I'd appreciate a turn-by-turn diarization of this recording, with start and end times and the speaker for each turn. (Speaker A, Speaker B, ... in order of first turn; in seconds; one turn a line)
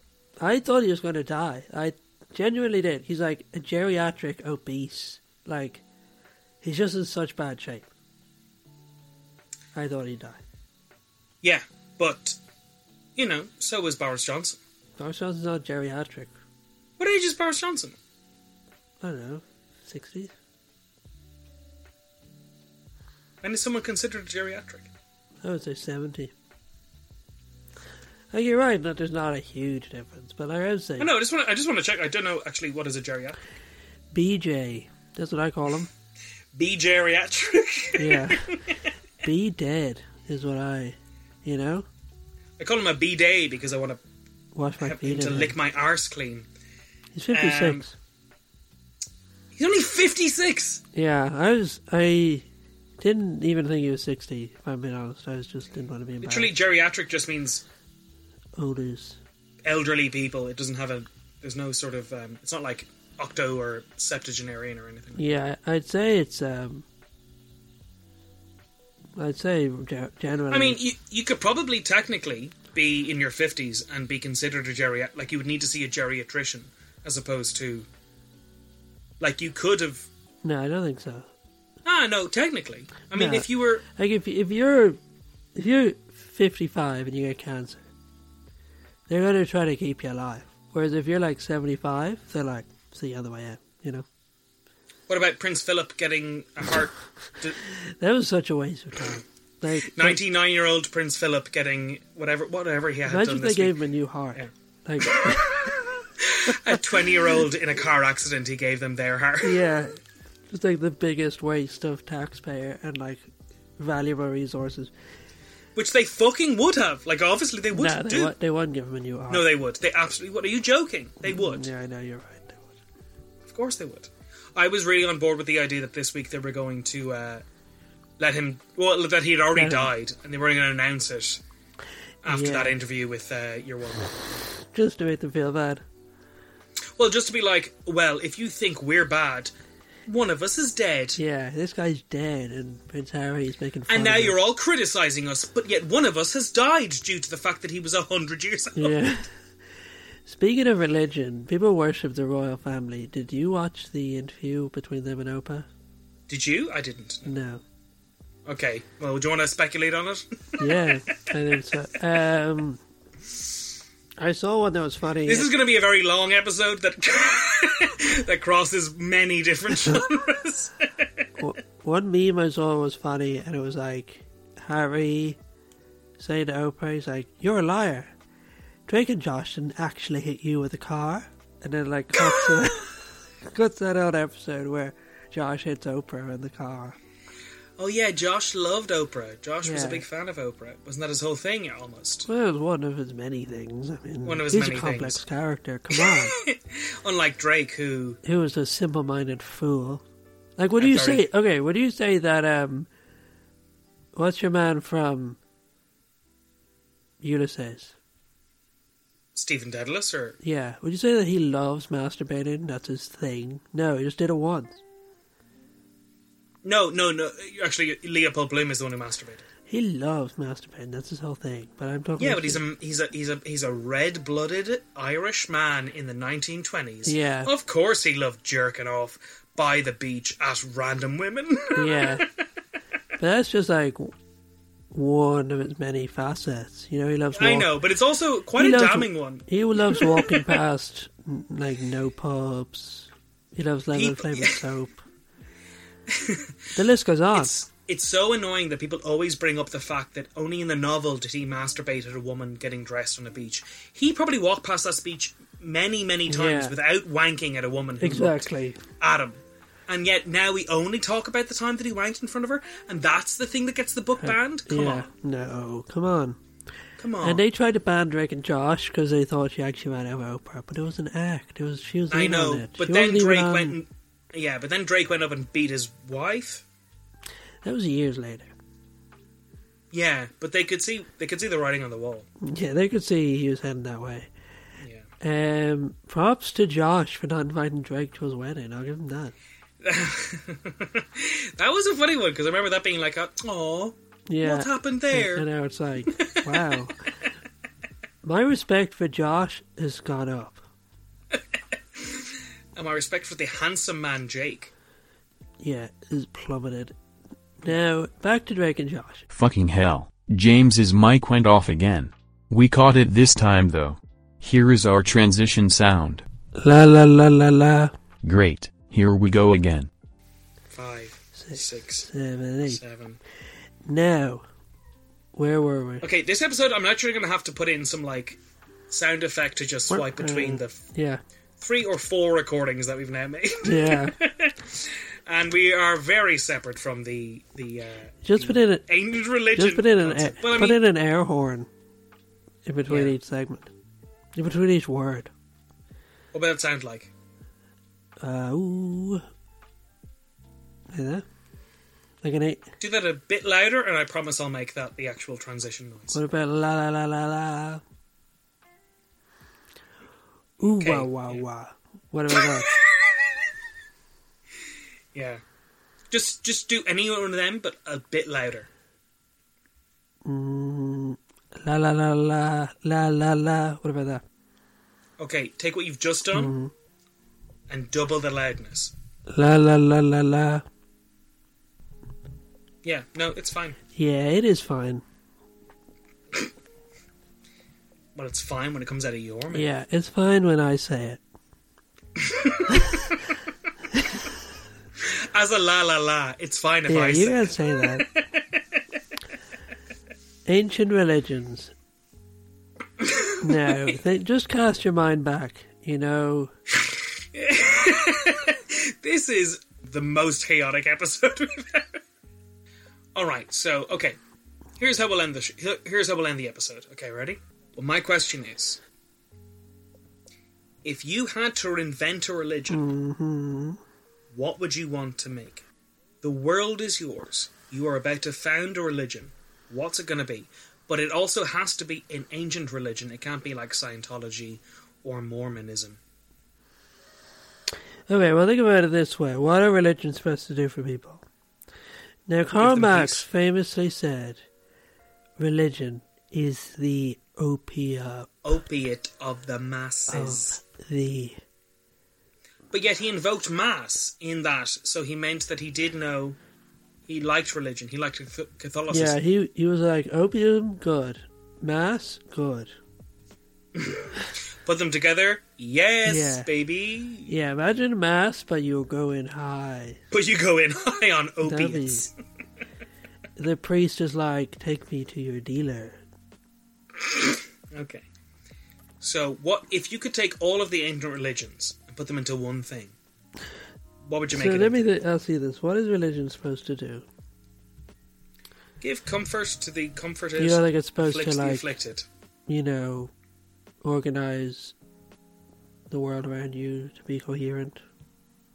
Speaker A: 0.4-5.8
Speaker A: 6.6-7.9
Speaker A: 9.8-10.4
Speaker B: 11.4-12.4
Speaker B: 13.2-14.6
Speaker A: 15.0-16.3
Speaker B: 17.0-18.0
Speaker A: 19.0-20.3
Speaker B: 23.4-24.9
Speaker A: 25.4-26.3
Speaker A: 28.3-31.1
Speaker B: 31.0-33.4
Speaker A: 34.1-35.9
Speaker B: 36.5-38.8
Speaker A: 38.0-38.6
Speaker A: 39.2-41.9
Speaker B: 42.6-44.0
Speaker A: 44.5-45.5
Speaker B: 44.8-46.5
Speaker A: 47.1-47.9
Speaker B: 47.3-47.9
Speaker B: 49.5-50.8
Speaker A: 51.0-52.5
Speaker A: 53.0-56.5
Speaker B: 56.2-57.6
Speaker A: 58.6-59.2
Speaker B: 59.6-65.2
Speaker A: 65.2-66.9
Speaker A: 69.2-70.8
Speaker B: 70.5-77.9
Speaker B: 79.2-80.1
Speaker A: 80.4-81.3
Speaker B: 81.8-83.8
Speaker A: 83.1-85.0
Speaker A: 85.5-87.8
Speaker A: 89.1-94.1
Speaker B: 95.1-97.6
Speaker A: 97.7-100.2
Speaker B: 99.8-103.8
Speaker A: 103.1-105.8
Speaker B: 105.0-109.7
Speaker A: 109.4-114.9
Speaker B: 115.8-118.3
Speaker A: 117.7-119.5
Speaker B: 119.3-121.7
Speaker A: 121.2-122.8
Speaker B: 123.5-127.4
Speaker B: 128.2-131.4
Speaker A: 129.5-129.9
Speaker B: 132.2-134.2
Speaker A: 132.2-132.8
Speaker A: 134.6-135.8
Speaker B: 137.0-139.5
Speaker B: 140.1-141.2
Speaker A: 141.2-144.4
Speaker B: 143.9-149.0
Speaker A: 148.8-149.4
Speaker A: 150.3-155.7
Speaker B: 156.3-157.3
Speaker A: 157.2-157.6
Speaker B: 158.5-160.8
Speaker A: 160.6-162.8
Speaker A: 164.2-165.5
Speaker B: 165.2-171.3
Speaker A: 171.4-175.4
Speaker A: 176.2-178.1
Speaker A: 178.9-187.0
Speaker B: 182.2-182.7
Speaker B: 187.8-192.3
Speaker A: 189.6-190.1
Speaker A: 192.3-196.3
Speaker B: 194.2-195.2
Speaker B: 195.9-198.2
Speaker A: 198.2-200.0
Speaker A: 200.6-202.9
Speaker B: 200.8-201.2
Speaker A: 204.2-205.4
Speaker A: 207.2-207.9
Speaker B: 209.3-210.4
Speaker A: 210.4-214.8
Speaker B: 216.6-219.4
Speaker A: 219.7-222.6
Speaker B: 222.2-232.4
Speaker A: 227.1-227.5
Speaker A: 231.8-232.3
Speaker A: 233.2-234.2
Speaker A: 234.9-237.8
Speaker B: 237.3-240.6
Speaker A: 238.6-245.0
Speaker B: 243.9-244.7
Speaker B: 246.1-246.6
Speaker A: 246.8-247.5
Speaker B: 247.3-258.5
Speaker A: 256.3-256.8
Speaker A: 258.0-258.8
Speaker B: 259.0-265.1
Speaker A: 264.2-266.4
Speaker B: 267.0-267.4
Speaker A: 267.2-273.8
Speaker B: 272.1-276.6
Speaker A: 277.6-278.5
Speaker B: 279.9-282.3
Speaker A: 282.4-284.3
Speaker B: 284.8-285.1
Speaker A: 285.2-289.4
Speaker B: 289.8-295.5
Speaker A: 294.3-297.1
Speaker B: 296.1-296.9
Speaker A: 298.2-300.6
Speaker B: 301.3-304.7
Speaker A: 305.6-306.9
Speaker A: 307.6-309.3
Speaker C: 309.3-316.2
Speaker A: 316.6-317.9
Speaker C: 318.2-319.9
Speaker B: 320.7-322.1
Speaker A: 321.4-322.8
Speaker B: 322.7-323.2
Speaker A: 323.9-324.4
Speaker A: 325.4-326.1
Speaker B: 326.0-330.9
Speaker A: 329.9-331.2
Speaker B: 331.6-340.8
Speaker A: 333.6-334.2
Speaker A: 338.2-338.9
Speaker A: 339.5-341.7
Speaker A: 342.6-343.7
Speaker B: 342.9-343.1
Speaker A: 344.4-345.3
Speaker B: 346.3-347.1
Speaker A: 348.2-349.2
Speaker A: 350.9-351.2
Speaker A: 352.2-352.7
Speaker B: 352.8-356.2
Speaker A: 356.1-357.8
Speaker A: 360.6-362.7
Speaker B: 360.8-361.4
Speaker B: 362.3-363.5
Speaker B: 365.1-365.4
Speaker B: 366.1-368.7
Speaker A: 370.2-374.2
Speaker B: 375.2-376.5
Speaker A: 376.3-376.7
Speaker B: 377.7-378.9
Speaker A: 379.3-380.6
Speaker B: 382.8-383.8
Speaker A: 383.9-385.0
Speaker B: 388.1-389.7
Speaker A: 389.5-391.2
Speaker B: 392.2-393.1
Speaker A: 392.7-393.0
Speaker A: 393.9-394.3
Speaker B: 395.0-398.8
Speaker A: 396.9-398.1
Speaker A: 400.5-401.7
Speaker B: 403.0-403.9
Speaker A: 403.4-406.5
Speaker B: 406.7-412.0
Speaker B: 413.1-414.2
Speaker B: 414.8-418.8
Speaker B: 420.8-422.9
Speaker A: 422.7-423.8
Speaker B: 424.3-425.6
Speaker B: 426.2-436.0
Speaker A: 438.1-441.2
Speaker A: 442.3-444.4
Speaker B: 442.6-443.3
Speaker A: 445.4-448.3
Speaker B: 448.4-450.6
Speaker A: 450.1-451.4
Speaker B: 452.7-456.4
Speaker B: 457.1-459.2
Speaker A: 458.9-462.8
Speaker B: 463.8-467.3
Speaker A: 466.1-466.5
Speaker A: 467.3-470.0
Speaker B: 470.1-472.1
Speaker A: 471.4-472.1
Speaker A: 473.4-476.0
Speaker B: 476.9-478.1
Speaker B: 479.0-482.9
Speaker B: 484.1-484.8
Speaker A: 484.3-487.1
Speaker B: 488.8-492.1
Speaker A: 490.4-491.7
Speaker A: 492.5-493.1
Speaker A: 493.8-494.7
Speaker A: 495.9-497.8